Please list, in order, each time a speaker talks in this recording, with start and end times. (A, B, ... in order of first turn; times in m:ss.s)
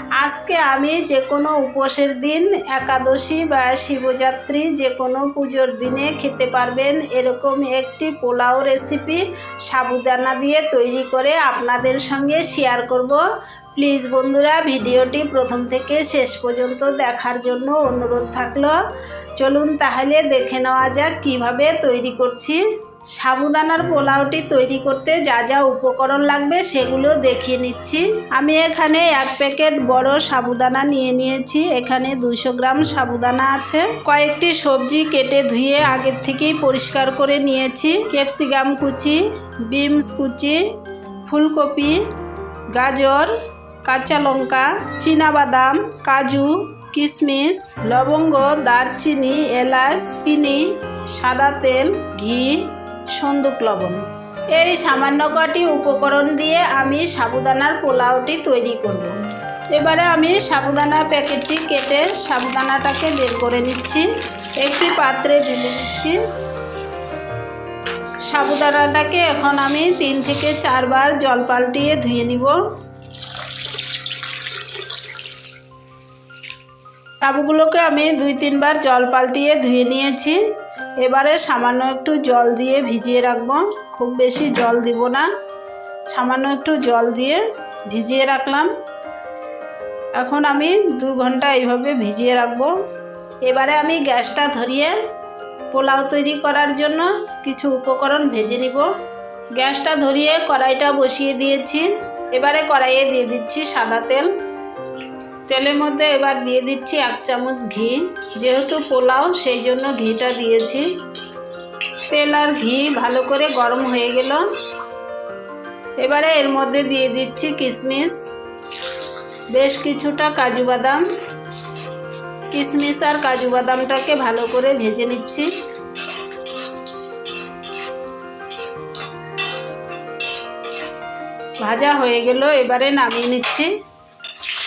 0:00.2-0:13.2 A
0:13.7-0:18.8 A
0:19.4-0:22.6 A
0:23.2-0:40.6 A
0:41.2-0:42.0 A
0:42.7-0:59.2 A
0:59.7-1:04.1 A
1:04.6-1:06.2 A
1:08.3-1:12.6 A
1:17.2-1:20.4 A
1:21.0-1:25.3 A
1:26.1-1:28.7 A
1:30.2-1:32.7 A
1:33.4-1:35.0 A
1:35.7-1:38.9 A
1:39.6-1:44.3 A
1:45.5-1:50.9 A
1:52.1-1:54.4 A
1:56.0-1:58.3 A
1:59.5-2:01.1 A
2:02.5-2:05.5 A
2:11.6-2:13.7 A